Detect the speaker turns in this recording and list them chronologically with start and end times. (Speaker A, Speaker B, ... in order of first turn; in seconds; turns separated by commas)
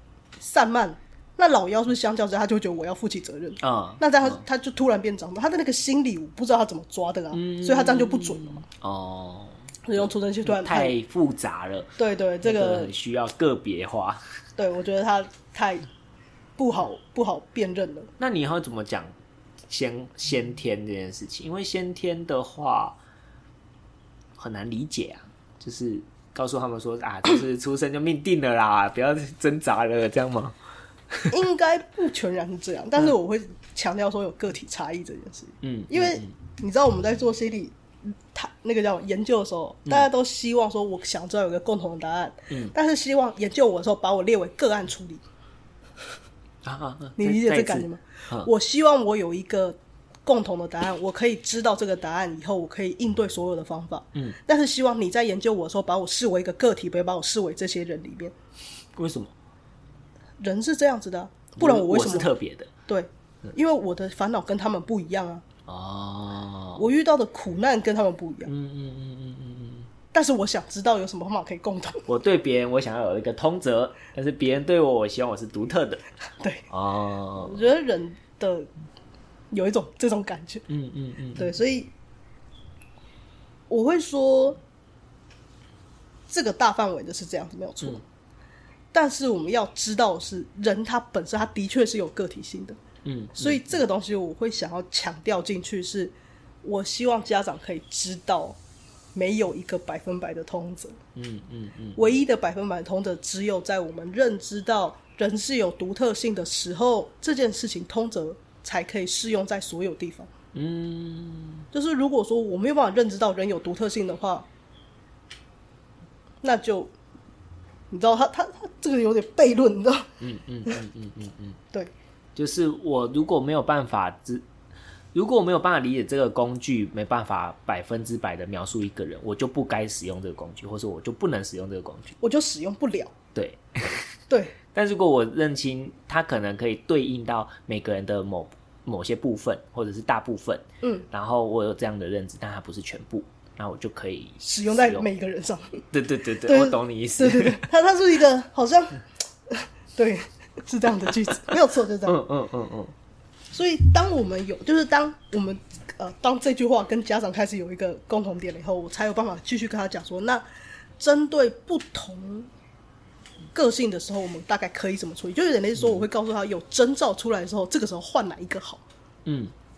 Speaker A: 0.4-8.6, Speaker B: 3.6-4.4, Speaker B: 7.3-11.9, Speaker A: 9.9-10.9, Speaker A: 12.0-12.9, Speaker B: 12.4-14.2, Speaker A: 14.6-15.9, Speaker A: 16.6-18.1, Speaker B: 18.2-19.1, Speaker B: 19.7-23.0, Speaker B: 24.4-30.6, Speaker A: 31.3-37.8, Speaker B: 35.6-36.3, Speaker A: 38.3-45.2, Speaker B: 46.6-48.5, Speaker A: 47.2-58.3, Speaker B: 59.0-59.3, Speaker A: 60.4-62.3, Speaker B: 61.6-62.7, Speaker A: 62.9-65.4, Speaker B: 65.7-66.9, Speaker A: 66.8-68.5, Speaker B: 68.5-69.9, Speaker A: 70.1-72.1, Speaker B: 72.1-76.0, Speaker A: 76.4-76.7, Speaker B: 76.7-77.7, Speaker A: 77.3-78.7, Speaker A: 79.5-80.6, Speaker B: 80.7-81.5, Speaker A: 81.4-81.9, Speaker A: 83.7-84.6, Speaker A: 86.3-88.0, Speaker A: 88.9-92.8, Speaker B: 93.0-93.8, Speaker A: 93.4-98.6, Speaker A: 99.1-101.0, Speaker B: 101.1-102.2, Speaker A: 102.0-110.3, Speaker B: 110.5-111.7, Speaker A: 111.7-114.5, Speaker A: 116.4-116.9, Speaker A: 117.9-120.1, Speaker B: 120.2-121.6, Speaker B: 122.4-124.5, Speaker B: 125.1-132.2, Speaker A: 132.2-133.1, Speaker B: 133.3-134.1, Speaker A: 134.3-134.6, Speaker B: 134.7-145.1, Speaker A: 140.8-141.1, Speaker A: 144.4-145.8, Speaker B: 145.9-147.6, Speaker A: 146.4-152.2, Speaker B: 152.1-152.9, Speaker A: 153.5-160.4, Speaker A: 161.0-162.5, Speaker A: 163.6-168.8, Speaker B: 165.8-166.1, Speaker B: 169.3-169.5